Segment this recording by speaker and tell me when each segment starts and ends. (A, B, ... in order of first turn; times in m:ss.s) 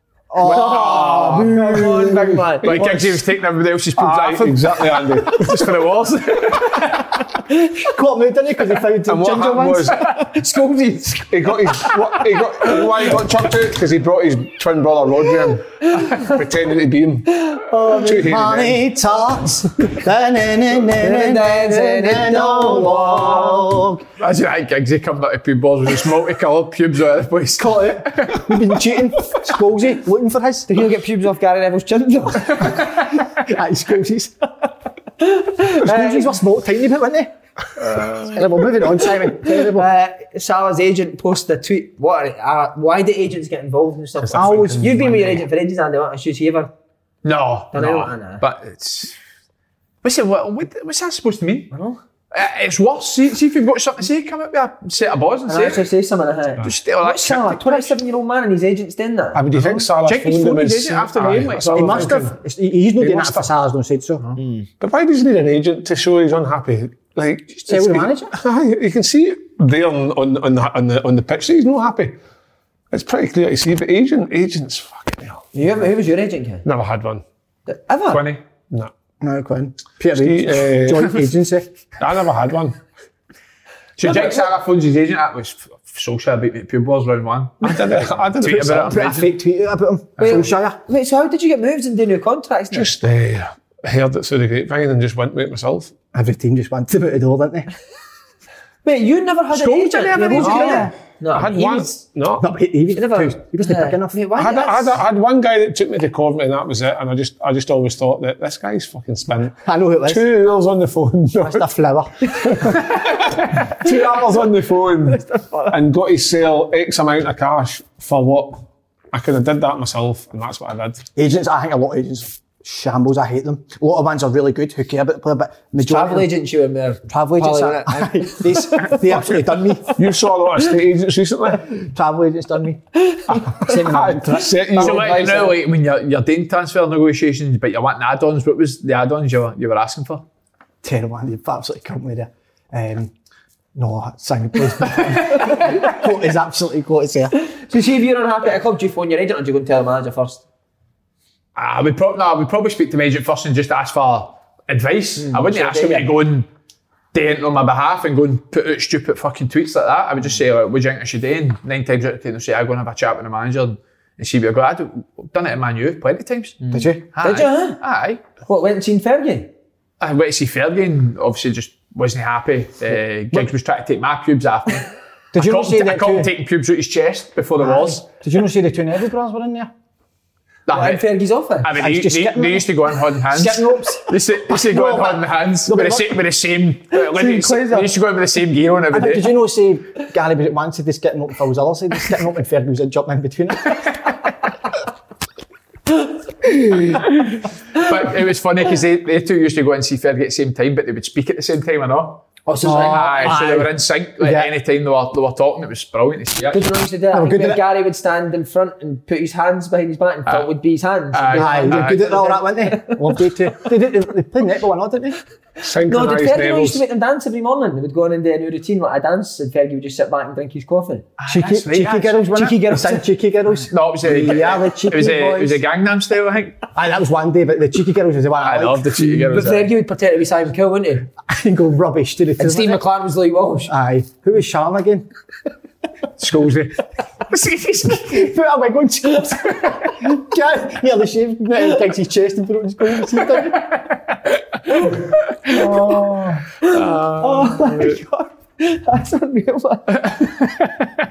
0:00.3-0:01.9 A
0:00.4-0:01.5 B
0:00.5-0:02.8 C
0:01.0-0:03.2 D
0:02.6-0:07.2 B
0:04.0-0:05.8 D
0:07.8-0:10.0 A
0:09.1-0:10.0 D
0:10.2-0:12.0 C
0:11.3-0:17.5 D
0:17.5-0:18.1 C
0:17.7-0:24.0 A
0:18.0-0:18.8 D
0:21.0-0:23.7 C
0:24.2-0:28.5 B
0:27.6-0:30.8 A
0:30.7-0:32.8 C
0:33.3-0:34.5 A
0:35.2-0:36.3 C
0:35.8-0:37.3 A
0:38.3-0:39.9 A
0:39.4-0:46.7 C
0:44.2-0:45.4 D
0:44.3-0:44.9 A
0:47.2-0:49.2 B
0:47.7-0:48.4 C
0:50.0-0:51.7 B
0:51.7-0:52.0 C
0:52.3-0:55.9 B
0:55.5-0:59.4 C
0:56.6-0:58.0 B
0:59.3-1:02.3 D
1:00.0-1:02.2 B
1:01.7-1:04.2 A
1:03.0-1:03.5 D
1:04.4-1:04.7 C
1:04.8-1:12.2 D
1:07.7-1:08.3 A
1:12.9-1:15.4 D
1:15.5-1:16.6 C
1:16.6-1:17.2 D
1:17.7-1:18.2 C
1:18.1-1:18.4 B
1:19.2-1:21.7 A
1:20.1-1:21.2 D
1:22.0-1:22.8 D
1:24.0-1:29.3 B
1:27.6-1:29.0 D
1:28.8-1:30.8 A
1:30.2-1:32.9 C
1:32.7-1:35.9 D
1:36.1-1:37.7 A
1:38.8-1:42.0 C
1:39.5-1:40.9 B
1:40.2-1:40.9 A
1:40.3-1:42.5 D
1:42.4-1:44.2 A
1:42.9-1:45.0 C
1:44.4-1:51.7 D
1:49.6-1:50.2 A
1:51.4-1:52.8 A
1:52.4-1:58.6 D
1:55.1-1:55.8 C
1:59.1-2:01.0 D
2:01.2-2:06.3 A
2:05.8-2:09.0 C
2:07.1-2:10.0 A
2:10.0-2:11.7 D
2:11.7-2:12.8 A
2:13.1-2:15.6 C
2:13.3-2:15.2 D
2:13.6-2:14.5 A
2:14.8-2:20.2 B
2:20.8-2:23.1 A
2:23.7-2:27.3 A
2:27.5-2:30.4 C
2:31.6-2:36.5 B
2:35.2-2:36.1 C
2:37.1-2:46.6 B
2:46.6-2:47.8 C
2:46.7-2:47.0 A
2:47.1-2:48.2 B
2:48.4-2:49.5 C
2:50.0-2:58.0 B
2:55.3-2:56.3 A
2:57.6-2:59.7 A
3:00.7-3:01.0 B
3:00.7-3:01.7 C
3:01.6-3:09.3 B
3:01.7-3:06.2 A
3:06.9-3:07.9 C
3:08.9-3:14.0 A
3:17.7-3:26.6 B
3:22.5-3:23.5 C
3:22.5-3:24.5 A
3:26.5-3:33.1 C
3:27.1-3:27.6 A
3:31.1-3:32.2 B
3:31.3-3:35.2 A
3:35.6-3:36.8 D
3:35.8-3:41.1 C
3:41.2-3:42.3 B
3:41.3-3:45.6 A
3:42.3-3:43.0 C
3:43.7-3:46.6 B
3:46.7-3:49.0 A
3:48.4-3:49.7 B
3:49.0-3:51.1 C
3:51.2-3:52.8 A
3:52.4-3:53.7 C
3:53.7-3:55.1 A
3:56.2-3:56.7 B
3:57.3-3:58.2 B
3:57.8-4:03.7 A
4:05.5-4:06.4 A
4:06.6-4:10.2 C
4:06.6-4:08.0 B
4:10.1-4:10.7 B